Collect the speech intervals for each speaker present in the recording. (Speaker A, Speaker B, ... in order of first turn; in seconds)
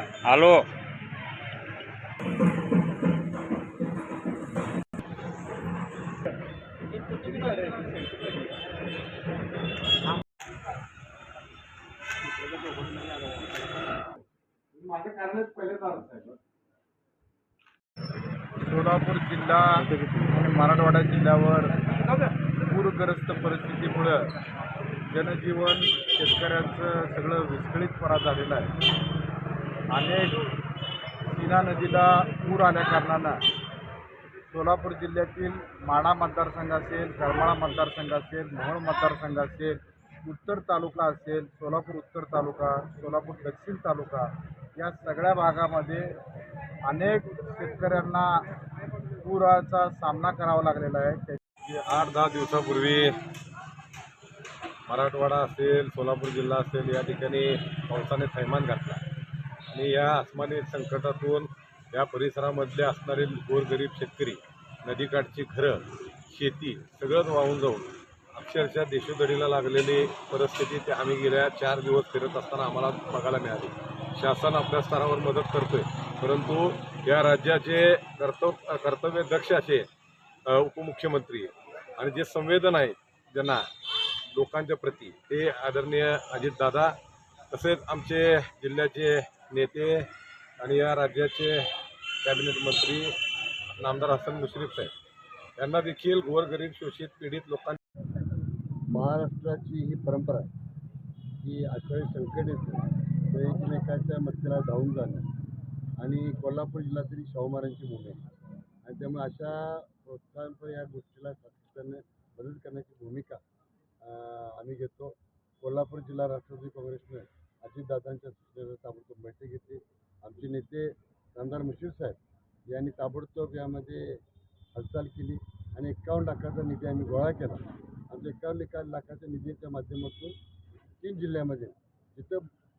Speaker A: 0.2-0.7, 12.4-13.5, 19.9-20.2
Speaker B: 7.4-7.9, 14.8-16.1, 18.6-24.3, 25.0-28.7, 29.9-30.4, 31.2-33.4, 34.5-46.2, 46.9-48.5, 49.1-51.4
Speaker C: 51.6-53.3, 54.9-59.0, 59.7-79.9, 80.5-83.7, 84.3-87.0, 87.5-91.7, 92.2-93.2, 93.8-94.9, 95.6-97.8
Speaker D: 98.9-100.5, 101.4-105.3, 106.0-108.2, 108.8-113.4, 114.0-122.2, 122.7-124.2, 124.8-130.4, 131.0-132.5